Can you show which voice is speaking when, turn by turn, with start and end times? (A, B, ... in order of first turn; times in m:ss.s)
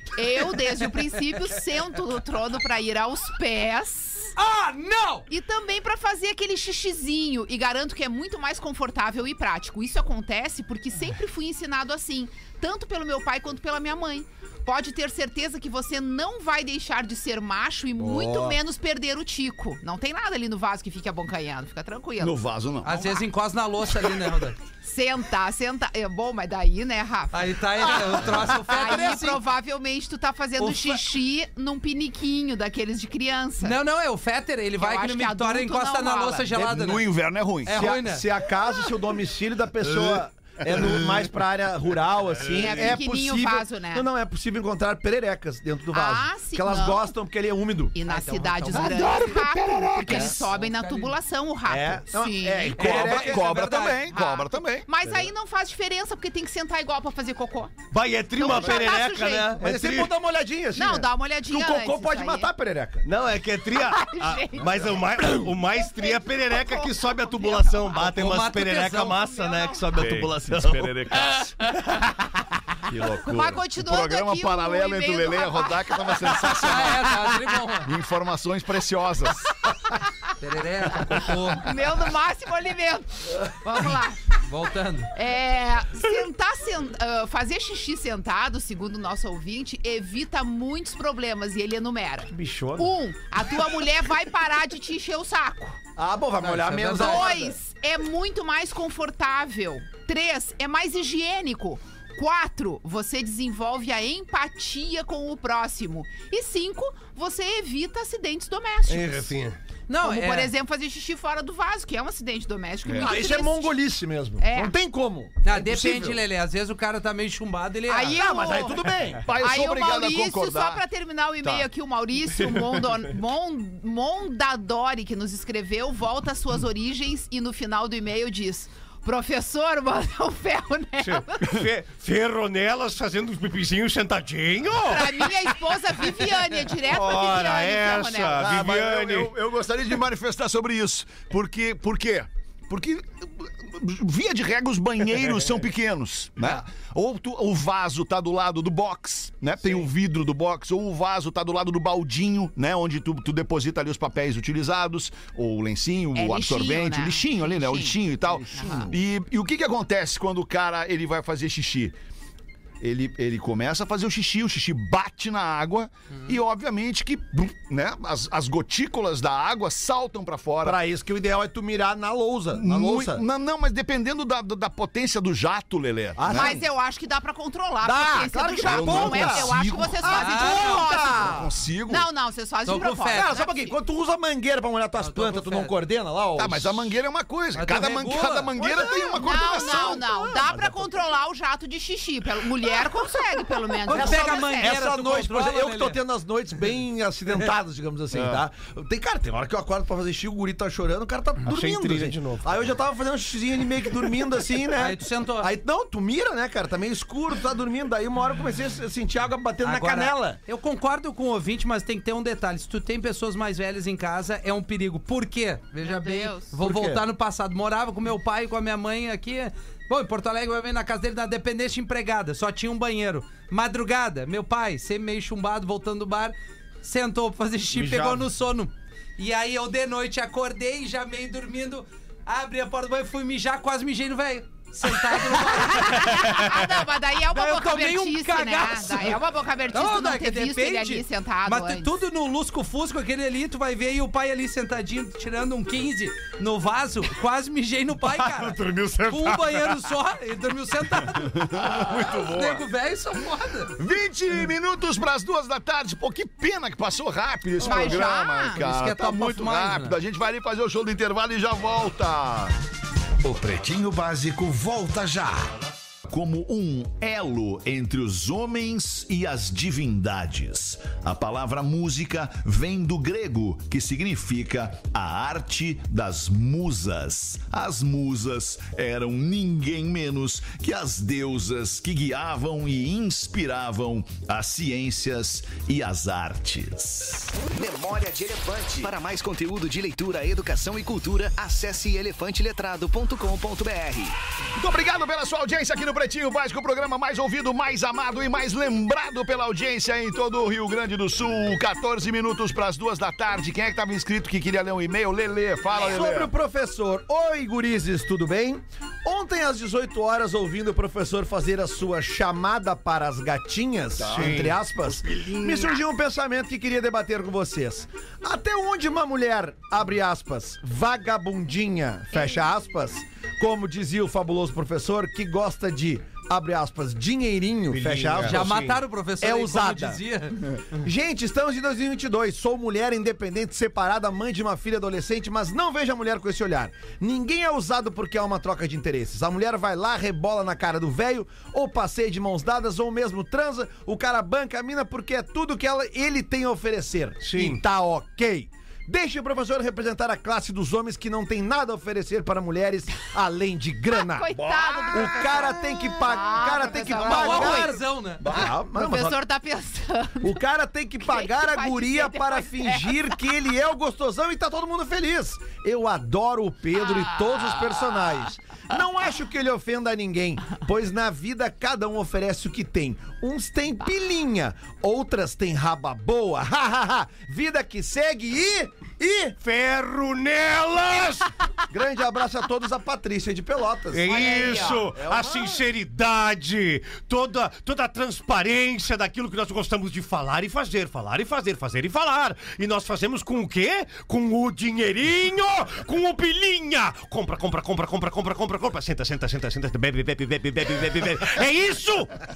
0:00.2-0:04.3 A
0:04.4-0:05.3 B
0:05.3-0:22.4 A
0:18.0-0:18.6 C
0:22.2-0:23.2 D
0:22.8-0:24.6 B
0:24.8-0:27.5 A
0:27.3-0:29.4 B
0:28.7-0:33.8 A
0:30.6-0:31.0 B
0:33.6-0:37.1 B
0:34.8-0:36.5 A
0:36.5-0:37.9 D
0:37.6-0:38.2 B
0:37.7-0:49.3 C
0:42.5-0:44.0 A
0:45.9-0:47.1 A
0:47.9-0:52.9 A
0:48.1-0:49.1 B
0:48.8-0:50.3 D
0:50.1-0:50.3 C
0:50.4-0:51.1 B
0:51.7-0:53.5 C
0:52.8-0:54.2 B
0:52.8-0:54.9 D
0:54.0-0:57.8 A
0:57.9-1:00.1 E
0:58.3-0:59.6 A
0:59.6-1:03.1 C
1:00.7-1:02.5 A
1:03.0-1:10.9 E
1:03.8-1:08.2 A
1:08.1-1:09.3 B
1:09.2-1:09.8 A
1:09.9-1:11.6 D
1:12.9-1:19.6 D
1:13.2-1:16.6 A
1:16.5-1:17.9 B
1:20.4-1:21.7 B
1:21.2-1:24.2 A
1:24.4-1:25.1 B
1:25.1-1:35.8 A
1:32.3-1:32.9 E
1:36.0-1:37.5 C
1:36.4-1:37.4 B
1:37.0-1:49.3 A
1:48.9-1:49.6 E
1:49.9-1:50.5 B
1:50.0-1:53.7 A
1:52.8-1:53.2 D
1:53.0-1:56.2 C
1:54.4-1:54.7 A
1:55.4-1:58.2 B
1:57.9-1:58.8 A
1:58.1-1:59.2 C
1:59.2-2:00.8 D
1:59.4-2:11.6 A
2:11.0-2:15.6 E
2:14.8-2:18.4 A
2:16.8-2:19.3 E
2:18.4-2:41.9 D
2:36.1-2:38.9 A
2:38.2-2:39.0 C
2:42.8-2:50.8 D
2:50.6-2:53.2 C
2:52.5-2:56.6 D
2:56.2-2:56.6 C
2:56.3-3:01.4 A
2:57.8-3:01.5 C
2:58.6-3:00.2 D
3:00.2-3:00.8 B
3:01.2-3:02.1 D
3:01.9-3:03.7 A
3:02.6-3:03.3 B
3:03.1-3:06.9 C
3:05.0-3:05.7 B
3:06.4-3:10.1 D
3:07.5-3:08.6 B
3:08.6-3:11.0 C
3:09.2-3:14.8 A
3:13.8-3:30.4 C
3:13.9-3:16.0 B
3:18.1-3:18.4 D
3:21.4-3:22.6 E
3:24.8-3:25.5 B
3:29.6-3:56.6 B
3:35.8-3:36.5 A
3:36.6-3:37.0 C
3:47.7-3:48.3 E
3:55.4-4:01.9 A
3:57.3-3:59.2 B
3:59.7-4:13.7 B
4:08.0-4:09.8 E
4:11.3-4:12.6 D
4:13.8-4:22.5 D
4:17.6-4:18.6 A
4:17.6-4:20.0 B
4:23.2-4:25.4 F
4:23.3-4:24.5 D
4:26.1-4:47.3 D
4:47.4-4:54.2 G
4:54.6-5:06.3 D
5:05.7-5:06.1 A
5:05.8-5:28.5 C
5:14.0-5:15.8 D
5:14.1-5:14.6 E
5:22.1-5:22.4 A
5:27.7-5:28.8 E
5:28.2-5:30.4 B
5:29.2-5:30.0 C
5:30.8-5:59.2 C
5:47.2-5:47.6 E
5:53.9-5:57.7 A
5:54.3-5:55.5 D
5:56.9-5:58.2 B
5:58.2-5:58.5 D
5:58.7-6:00.4 A
6:00.2-6:19.3 C
6:01.0-6:03.3 A
6:19.4-6:21.3 E
6:21.7-6:25.6 C
6:23.9-6:42.2 E
6:24.1-6:24.9 A